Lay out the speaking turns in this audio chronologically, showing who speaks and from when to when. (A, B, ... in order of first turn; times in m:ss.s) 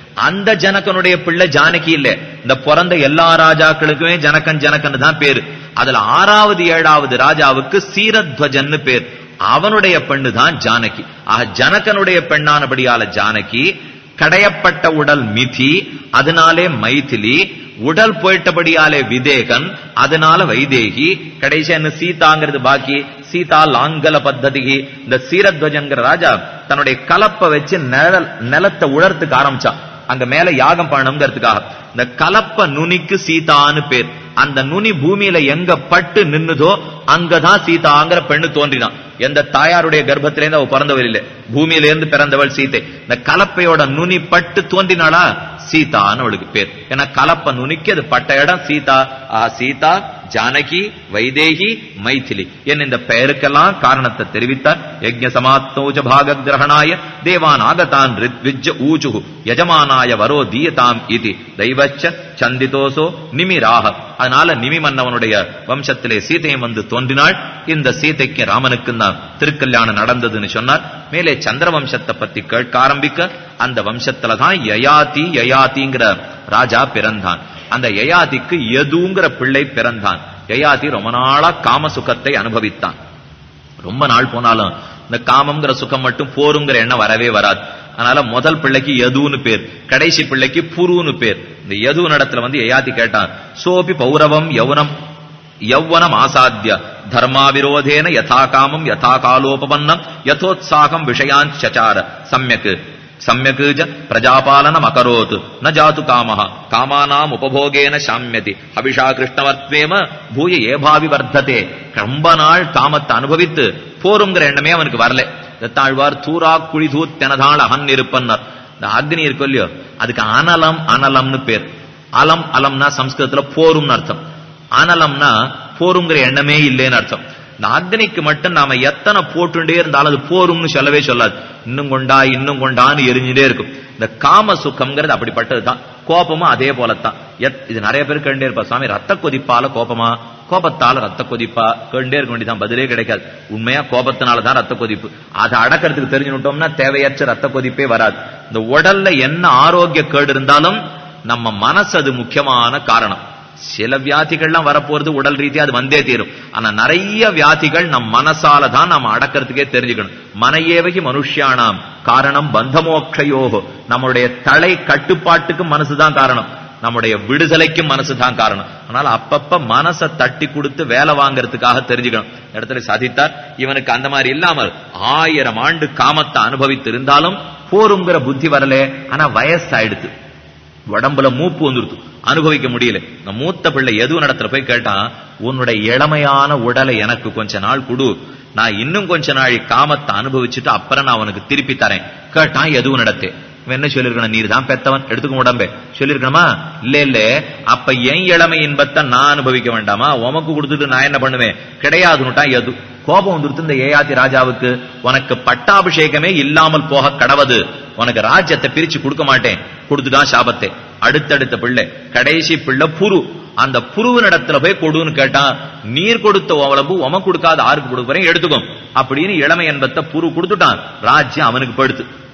0:00.2-1:23.0 A
1:23.8-1:34.9 A
1:35.7-2:04.2 A
2:04.8-3:00.1 A
3:00.9-3:42.0 A